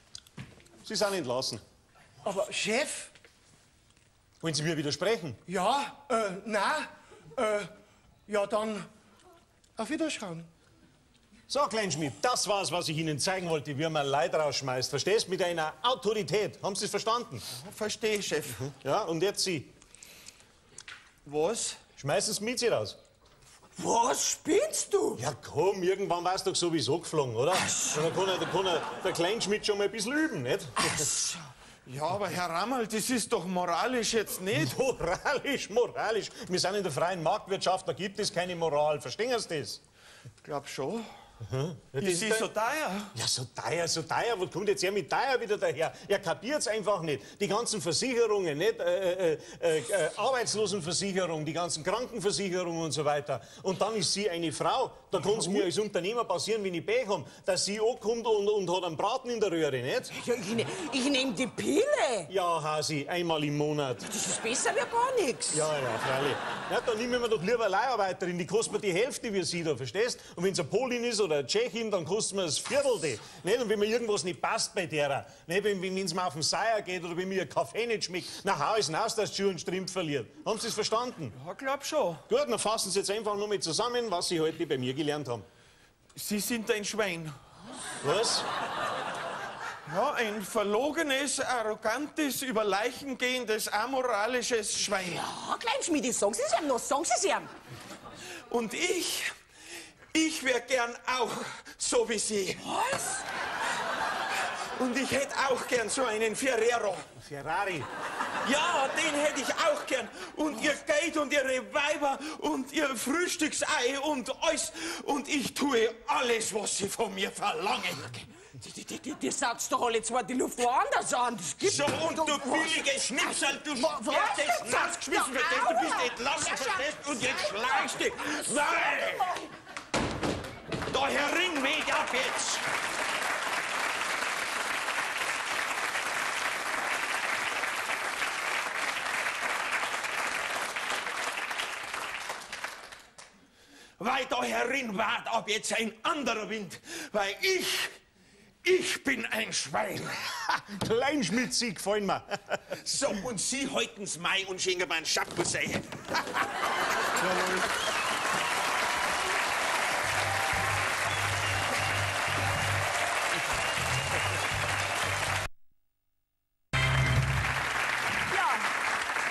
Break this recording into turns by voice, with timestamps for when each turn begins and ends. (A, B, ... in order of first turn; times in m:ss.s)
0:00.8-0:01.6 A
0:02.2-0:03.1 B
0:04.4-0:05.4 A
0:05.5-0:07.7 B
0:08.3-0:08.9 B
0:09.8-0:10.5 B
0:11.5-0:17.4 A
0:17.5-0:18.7 C
0:18.7-0:19.7 A
0:21.2-0:21.8 C
0:22.0-0:23.0 A
0:23.8-0:25.2 D
0:25.2-0:31.0 A
0:31.9-0:34.8 C
0:34.6-0:39.8 A
0:40.4-0:41.1 C
0:41.4-0:42.5 A
0:42.0-0:43.1 C
0:43.1-1:00.1 A
1:00.1-1:02.3 D
1:02.3-1:04.1 A
1:04.0-1:05.7 D
1:05.5-1:21.4 A
1:21.4-1:22.2 C
1:22.3-1:25.5 A
1:26.2-1:27.4 C
1:28.0-1:28.5 A
1:29.9-1:35.2 C
1:35.0-1:37.5 D
1:38.5-1:39.3 C
1:40.1-1:42.6 C
1:42.6-1:43.2 D
1:44.8-1:47.1 C
1:47.2-1:47.9 A
1:48.4-1:58.2 C
1:58.6-2:06.9 D
2:01.6-2:09.4 C
2:10.9-2:12.7 C
2:24.0-2:28.0 C
2:28.6-2:30.5 C
2:30.6-2:32.6 A
2:32.7-2:35.8 C
2:37.3-2:37.6 A
2:48.3-2:48.7 D